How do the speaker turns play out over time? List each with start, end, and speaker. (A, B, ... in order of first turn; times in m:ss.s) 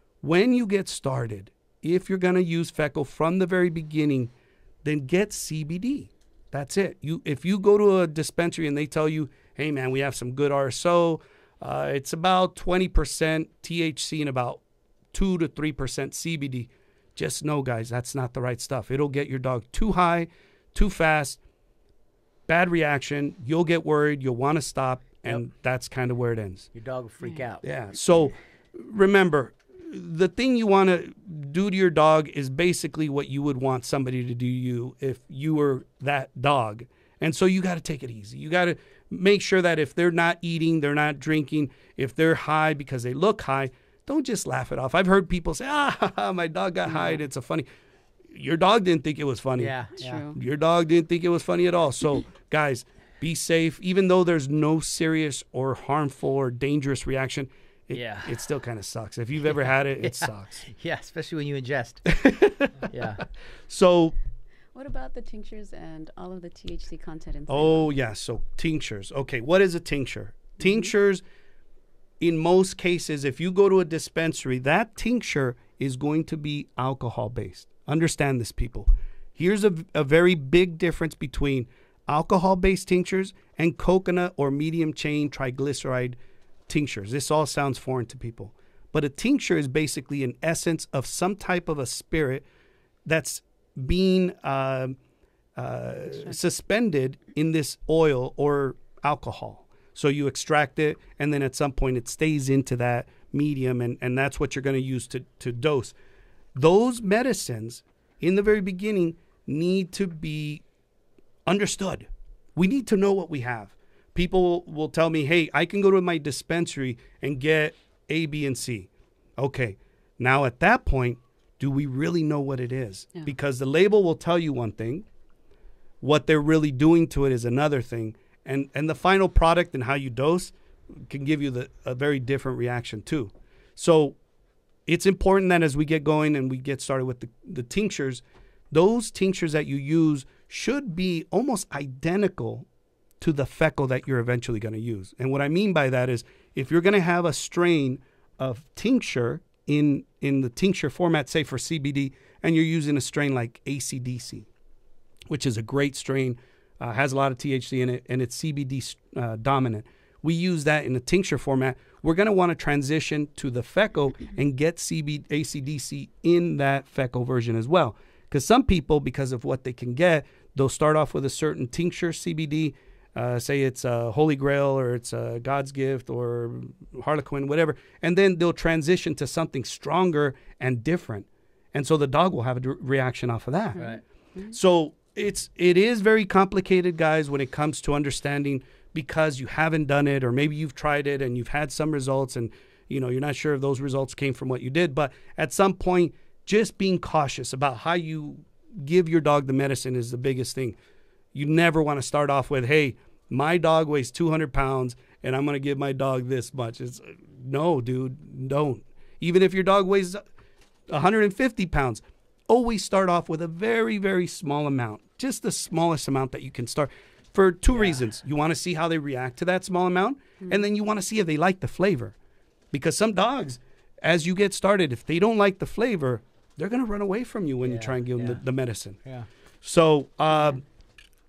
0:00.2-0:04.3 A
0:04.8-0:14.6 A
0:15.1-0:21.4 A
0:22.5-0:26.7 A
0:26.7-0:27.6 B
0:27.6-0:47.7 A
0:46.9-0:47.2 C
0:48.3-0:49.7 A
0:49.6-0:50.2 B
0:50.0-0:50.4 C
0:50.3-1:00.7 A
0:57.9-0:58.4 B
1:00.0-1:02.0 B
1:02.0-1:02.9 A
1:02.9-1:03.2 B
1:03.7-1:04.1 A
1:04.7-1:07.9 C
1:07.5-1:11.2 A
1:12.2-1:26.2 A
1:26.7-1:32.4 A
1:33.0-1:35.0 A
1:35.6-1:45.9 A
1:46.5-1:50.6 A
1:51.5-1:52.0 A
1:52.6-2:05.0 A
2:06.0-2:14.2 A
2:14.9-2:22.6 A
2:23.2-2:34.5 A
2:35.3-3:03.8 A
3:03.7-3:04.0 B
3:03.7-3:04.6 C
3:04.5-3:20.8 A
3:21.3-3:30.2 A
3:30.9-3:42.1 A
3:37.7-3:38.0 B
3:42.7-3:49.0 A
3:47.6-3:48.4 B
3:49.6-3:50.6 A